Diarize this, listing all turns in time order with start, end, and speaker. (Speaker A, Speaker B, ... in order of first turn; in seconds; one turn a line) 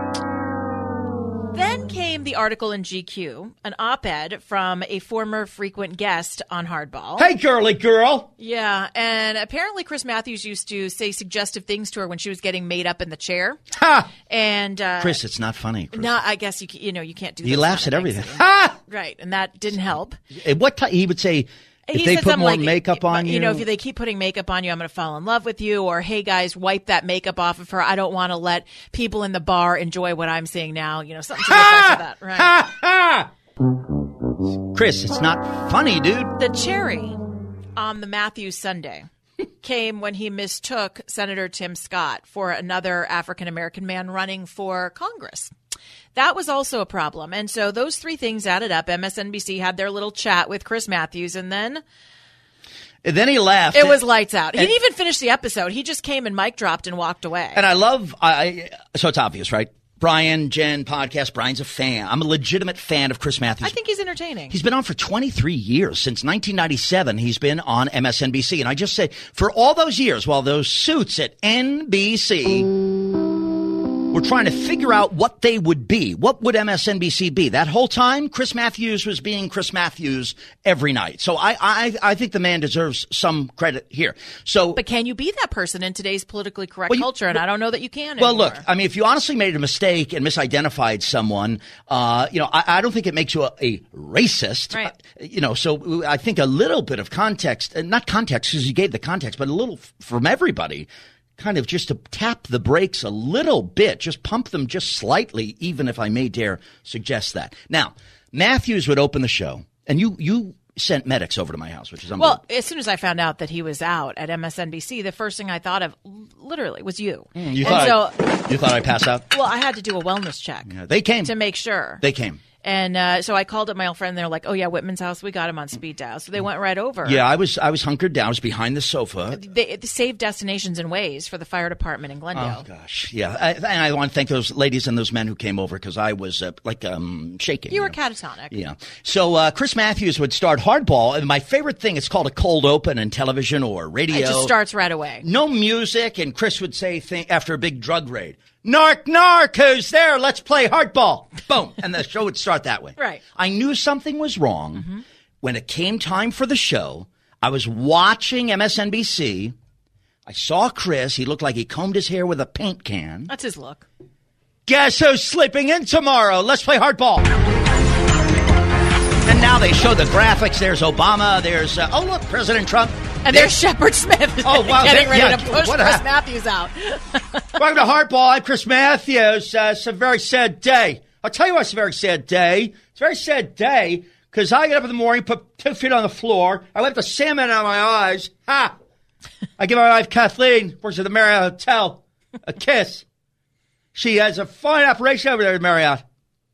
Speaker A: 1.5-7.3
Speaker B: 7.2-8.3
Speaker A: 8.4-13.6
Speaker B: 13.7-14.1
Speaker A: 14.3-15.2
Speaker B: 15.0-16.1
Speaker A: 15.9-20.2
Speaker B: 17.4-18.8
Speaker B: 20.4-23.6
Speaker A: 21.9-32.6
Speaker B: 31.4-33.3
Speaker B: 34.7-36.3
Speaker A: 36.4-37.2
Speaker A: 37.8-39.1
Speaker A: 39.6-45.5
Speaker A: 46.1-51.8
Speaker B: 53.0-54.0
Speaker A: 53.7-57.6
Speaker B: 57.5-63.7
Speaker A: 63.6-64.5
Speaker B: 64.5-72.7
Speaker B: 74.1-84.8
Speaker A: 84.7-88.6
Speaker B: 88.2-100.9
Speaker B: 101.4-112.4
Speaker A: 112.2-118.3
Speaker B: 117.3-119.2
Speaker A: 119.3-122.0
Speaker B: 120.7-121.3
Speaker B: 122.0-122.4
Speaker A: 122.6-127.2
Speaker B: 127.0-129.4
Speaker A: 129.3-132.7
Speaker B: 132.3-137.9
Speaker A: 137.7-138.5
Speaker B: 138.5-144.5
Speaker A: 144.1-145.2
Speaker B: 145.2-159.5
Speaker A: 153.0-153.2
Speaker B: 160.3-163.3
Speaker A: 163.3-163.8
Speaker B: 164.7-167.3
Speaker B: 169.2-173.6
Speaker A: 173.2-177.5
Speaker B: 174.4-176.0
Speaker B: 177.6-188.7
Speaker B: 189.6-193.0
Speaker B: 193.9-196.0